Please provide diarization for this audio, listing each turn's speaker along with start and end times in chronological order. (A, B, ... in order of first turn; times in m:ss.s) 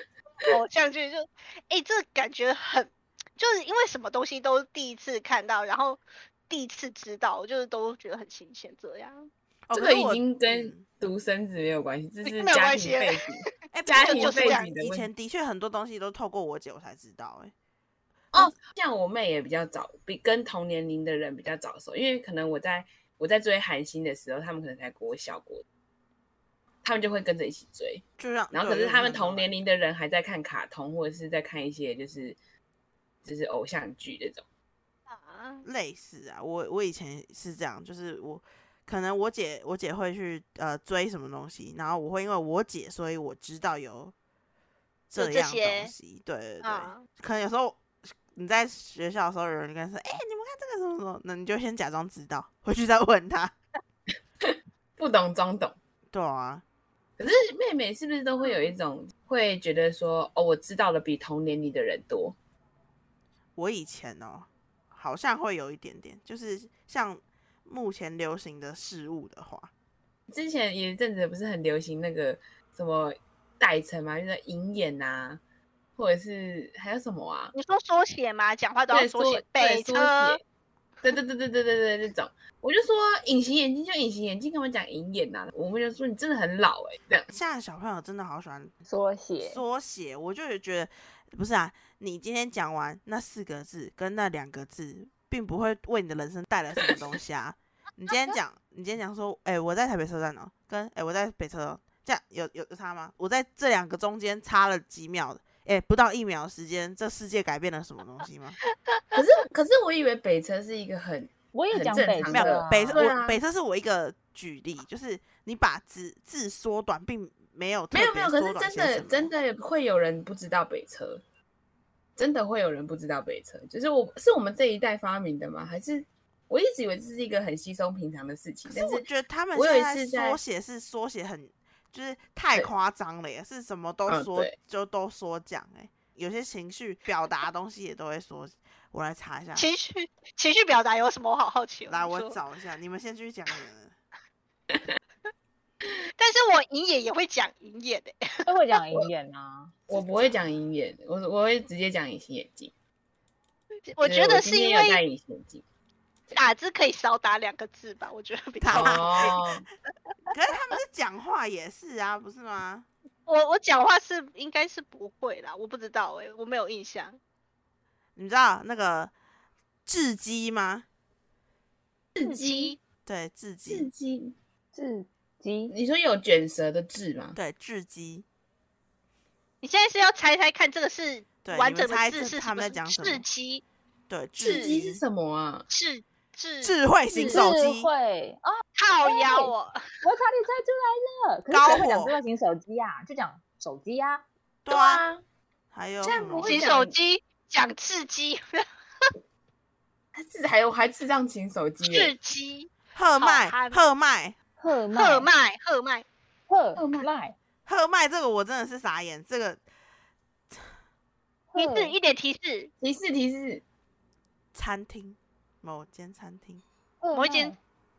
0:00.4-0:09.3 A
0:09.7-0:10.8 B
0:09.7-0:15.1 C
0:12.2-0:13.2 A
0:13.7-0:17.5 B
0:13.9-0:14.7 A
0:18.3-0:25.6 C
0:26.8-0:32.4 C
0:28.2-0:29.5 B
0:33.2-0:34.4 C
0:35.1-0:35.6 A
0:35.6-0:44.1 B
0:45.1-0:53.5 B
0:45.2-0:45.9 A
0:46.6-0:47.0 A
0:54.4-0:55.8 C
0:56.1-0:56.6 B
0:57.2-1:02.4 C
1:03.6-1:09.7 B
1:10.3-1:15.4 C
1:16.0-1:17.5 C
1:17.5-1:20.4 A
1:18.9-1:20.4 C
1:21.0-1:27.3 C
1:27.3-1:28.7 B
1:28.9-1:29.6 D
1:29.4-1:48.6 B
1:48.9-1:49.2 A
1:49.1-1:53.4 C
1:51.5-1:53.0 D
1:52.3-1:59.3 B
1:57.9-2:01.2 C
2:02.2-2:10.4 C
2:08.7-2:19.7 B
2:14.1-2:14.5 C
2:19.6-2:22.4 A
2:21.9-2:23.9 B
2:26.2-2:28.5 A
2:28.4-2:29.8 D
2:29.9-2:32.7 C
2:33.9-2:35.0 A
2:34.0-2:35.6 C
2:36.3-2:39.4 A
2:38.6-2:39.4 B
2:38.7-2:39.6 C
2:40.3-2:42.8 B
2:43.3-2:47.2 A
2:48.2-2:49.1 B
2:49.8-2:50.8 B
2:52.1-2:52.8 C
2:52.2-2:52.8 A
2:53.0-2:53.9 B
2:53.7-2:54.3 C
2:54.7-2:55.7 D
2:55.7-2:57.4 C
2:57.3-2:58.2 B
2:59.6-3:03.6 A
3:01.4-3:03.2 B
3:04.1-3:05.0 B
3:04.4-3:05.6 C
3:04.4-3:04.7 A
3:05.7-3:06.8 A
3:06.6-3:07.9 B
3:07.1-3:14.2 D
3:08.8-3:09.9 A
3:11.5-3:12.2 B
3:14.6-3:15.0 B
3:14.7-3:15.2 C
3:15.7-3:16.6 B
3:16.0-3:16.9 C
3:16.4-3:19.1 A
3:20.1-3:22.1 C
3:21.8-3:23.8 A
3:22.9-3:24.4 B
3:24.6-3:25.3 D
3:24.9-3:26.0 A
3:26.5-3:27.4 D
3:26.8-3:27.1 C
3:27.6-3:29.6 B
3:31.5-3:31.9 D
3:31.6-3:32.7 A
3:32.8-3:33.6 C
3:34.5-3:36.6 B
3:37.0-3:37.6 D
3:37.1-3:37.5 A